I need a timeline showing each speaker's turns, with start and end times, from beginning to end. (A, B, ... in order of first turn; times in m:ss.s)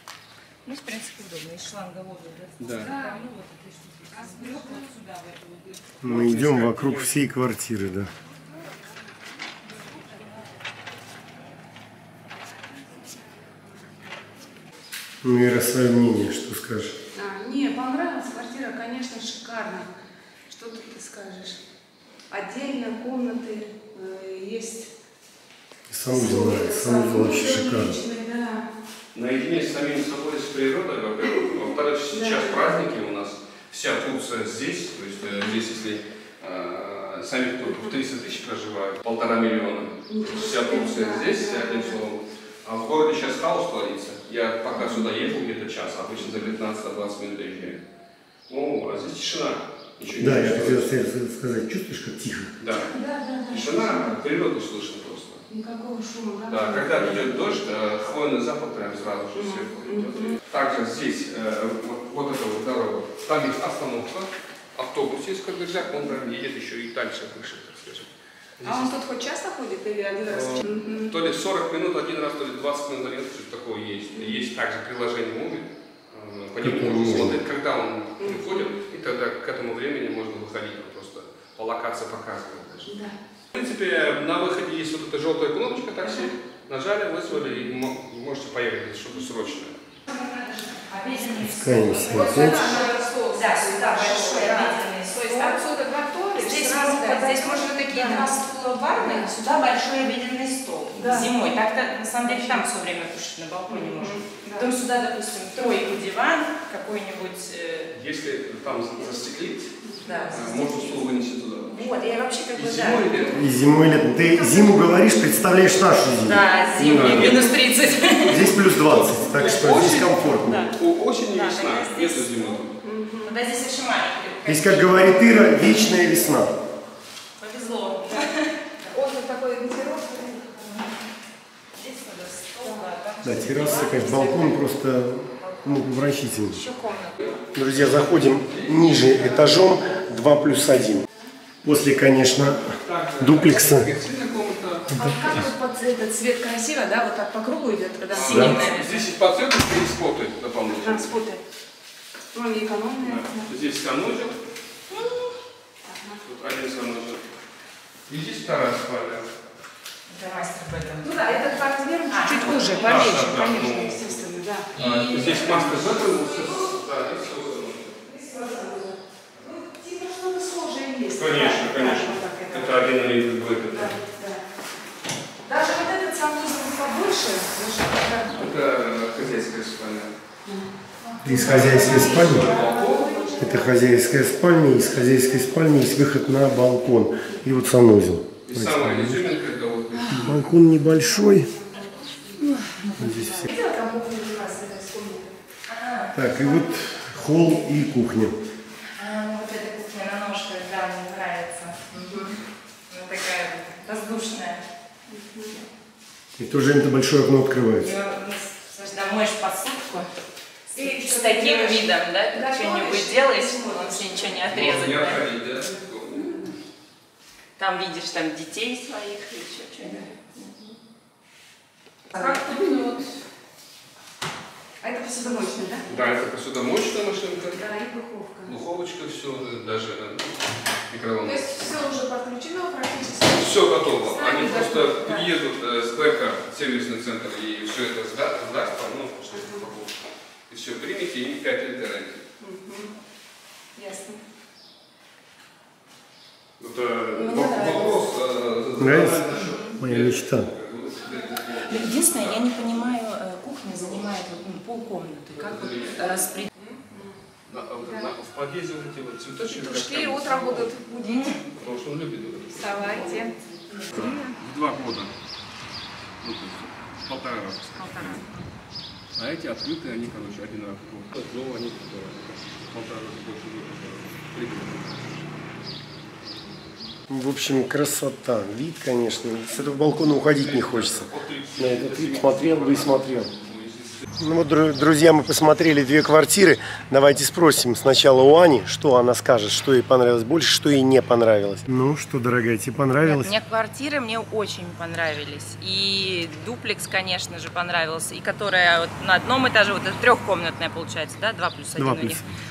0:00.6-0:05.5 A
0:02.6-0:02.9 B
0:02.8-0:03.2 C
0:04.1-0:04.9 C
0:06.0-0:08.1 D
0:06.0-0:07.2 B
0:15.2-0:16.9 D
0:17.1-0:19.9 C
0:20.5-0:21.6 C
0:22.3-0:24.9 C
0:25.9-0:28.0 D
0:26.1-0:28.7 C
0:29.1-0:47.8 B
0:32.1-0:32.7 C
0:35.3-0:35.5 C
0:37.7-0:38.0 C
0:40.1-0:42.0 C
0:44.8-0:45.0 C
0:48.5-0:50.9 B
0:50.2-0:52.5 D
0:52.6-0:52.9 B
0:52.8-0:54.1 C
0:53.5-0:55.4 B
0:55.5-0:57.3 C
0:56.5-1:08.9 B
0:59.4-1:00.4 C
1:08.6-1:11.1 C
1:10.3-1:22.9 B
1:14.2-1:14.4 C
1:16.6-1:17.4 D
1:18.2-1:18.7 C
1:22.9-1:23.1 C
1:23.5-1:29.8 B
1:30.1-1:35.6 A
1:31.4-1:32.7 D
1:32.1-1:38.4 C
1:36.4-1:47.9 A
1:38.9-1:39.3 C
1:40.9-1:41.3 C
1:42.2-1:42.6 C
1:43.7-1:44.7 C
1:47.9-1:49.7 B
1:49.8-1:50.3 C
1:50.0-1:51.0 A
1:50.3-1:51.8 B
1:51.7-1:53.2 A
1:52.6-1:53.4 B
1:53.3-1:56.4 D
1:56.2-1:58.5 A
1:56.8-1:57.5 B
1:58.2-2:00.7 D
1:58.9-2:02.7 B
2:01.3-2:02.7 A
2:02.8-2:03.3 C
2:03.2-2:05.4 A
2:04.4-2:06.6 D
2:07.4-2:08.5 A
2:08.9-2:10.8 C
2:11.8-2:14.7 A
2:13.2-2:16.6 D
2:15.4-2:15.9 A
2:16.4-2:17.2 A
2:17.2-2:19.8 B
2:17.5-2:21.0 D
2:21.6-2:23.9 D
2:22.8-2:25.3 B
2:24.9-2:28.8 C
2:24.9-2:25.2 D
2:28.1-2:31.1 B
2:28.2-2:29.0 A
2:28.3-2:28.6 D
2:30.7-2:31.4 C
2:32.3-2:33.5 C
2:33.0-2:34.4 B
2:35.8-2:36.2 C
2:36.2-2:37.3 B
2:38.1-2:39.3 B
2:40.1-2:41.5 A
2:41.0-2:44.7 C
2:42.1-2:43.3 A
2:42.4-2:44.2 B
2:44.7-2:46.3 A
2:44.8-2:47.9 B
2:48.0-2:52.8 C
2:51.2-2:54.0 B
2:53.7-2:54.4 C
2:55.4-2:58.4 C
2:58.3-3:00.1 B
3:00.4-3:03.7 C
3:01.2-3:02.5 D
3:01.2-3:03.2 B
3:03.4-3:09.2 D
3:08.5-3:10.4 B
3:09.9-3:10.3 C
3:10.1-3:11.5 D
3:10.8-3:15.3 C
3:12.4-3:12.9 A
3:13.0-3:13.5 D
3:15.7-3:16.6 A
3:16.1-3:18.4 D
3:19.0-3:22.4 A
3:22.9-3:24.6 A
3:25.1-3:25.6 C
3:26.4-3:27.9 D
3:27.8-3:30.1 A
3:30.7-3:34.4 C
3:30.7-3:35.2 A
3:34.5-3:36.5 B
3:36.1-3:36.5 C
3:37.6-3:40.7 A
3:42.1-3:43.1 A
3:42.2-3:42.7 C
3:44.8-3:45.9 C
3:45.9-3:47.6 B
3:47.5-3:48.5 C
3:48.5-3:51.5 B
3:51.2-3:55.3 C
3:53.3-3:59.9 B
3:59.3-3:59.6 C
4:00.5-4:02.3 B
4:02.4-4:02.9 C
4:03.8-4:04.2 C
4:06.6-4:12.4 B
4:07.2-4:08.0 A
4:08.8-4:10.5 D
4:11.7-4:16.5 A
4:15.4-4:16.2 B
4:16.6-4:17.1 C
4:17.4-4:20.7 B
4:19.5-4:21.4 C
4:21.0-4:21.4 A
4:21.4-4:23.2 B
4:22.5-4:24.4 C
4:23.9-4:25.1 B
4:26.2-4:28.0 B
4:27.7-4:28.5 C
4:29.2-4:35.1 B
4:37.1-4:43.3 D
4:40.2-4:44.1 B
4:44.2-4:53.3 D
4:53.0-5:02.2 A
5:01.8-5:02.2 D